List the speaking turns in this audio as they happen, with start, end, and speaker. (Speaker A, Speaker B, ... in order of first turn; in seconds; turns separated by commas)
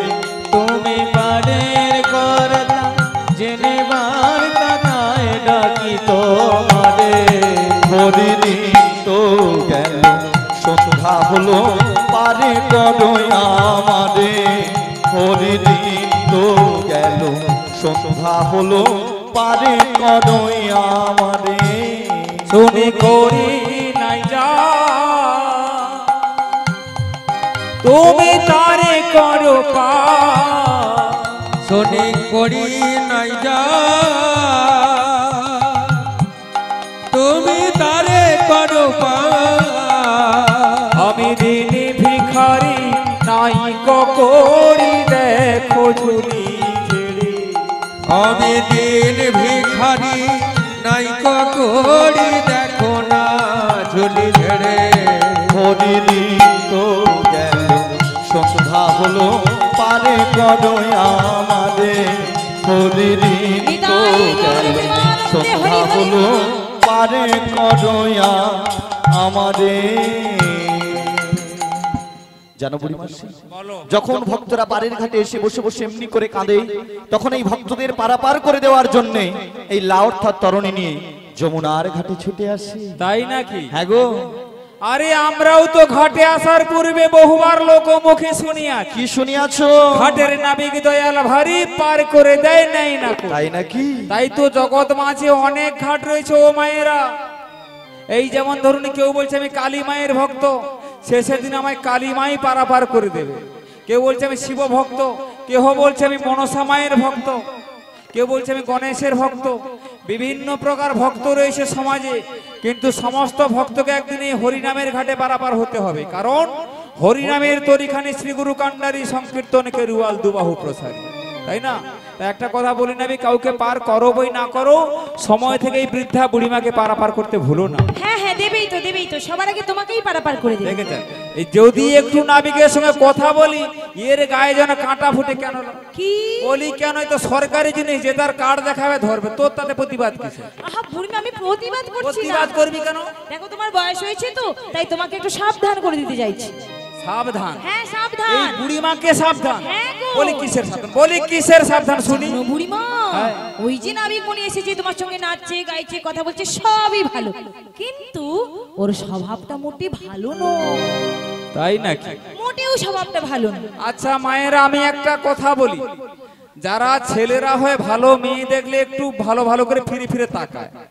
Speaker A: 0.5-7.8, Speaker B: 7.8-22.5, Speaker C: 22.5-26.1, Speaker C: 27.8-31.2, Speaker A: 31.6-36.0, Speaker A: 37.1-40.9, Speaker C: 41.0-47.6, Speaker A: 48.1-55.5, Speaker B: 55.5-71.8, Speaker D: 63.6-66.2, Speaker B: 72.6-73.3, Speaker C: 73.5-73.9, Speaker B: 73.9-83.0, Speaker C: 83.0-83.7, Speaker B: 83.7-84.1, Speaker C: 84.9-89.0, Speaker B: 88.9-90.2, Speaker C: 90.0-93.4, Speaker B: 93.3-94.1, Speaker C: 94.1-97.0, Speaker C: 98.1-100.5, Speaker C: 101.1-107.4, Speaker C: 108.1-109.6, Speaker C: 110.1-127.8, Speaker D: 128.0-130.8, Speaker C: 130.6-135.8, Speaker D: 135.9-136.6, Speaker C: 136.4-140.5, Speaker D: 140.6-142.6, Speaker C: 142.0-143.1, Speaker D: 143.3-146.6, Speaker C: 147.0-147.6, Speaker D: 147.6-148.6, Speaker C: 148.3-152.4, Speaker D: 149.6-150.5, Speaker D: 151.9-161.0, Speaker C: 153.1-153.4, Speaker C: 161.5-162.2, Speaker D: 162.4-163.7, Speaker C: 163.9-165.8, Speaker C: 166.6-170.7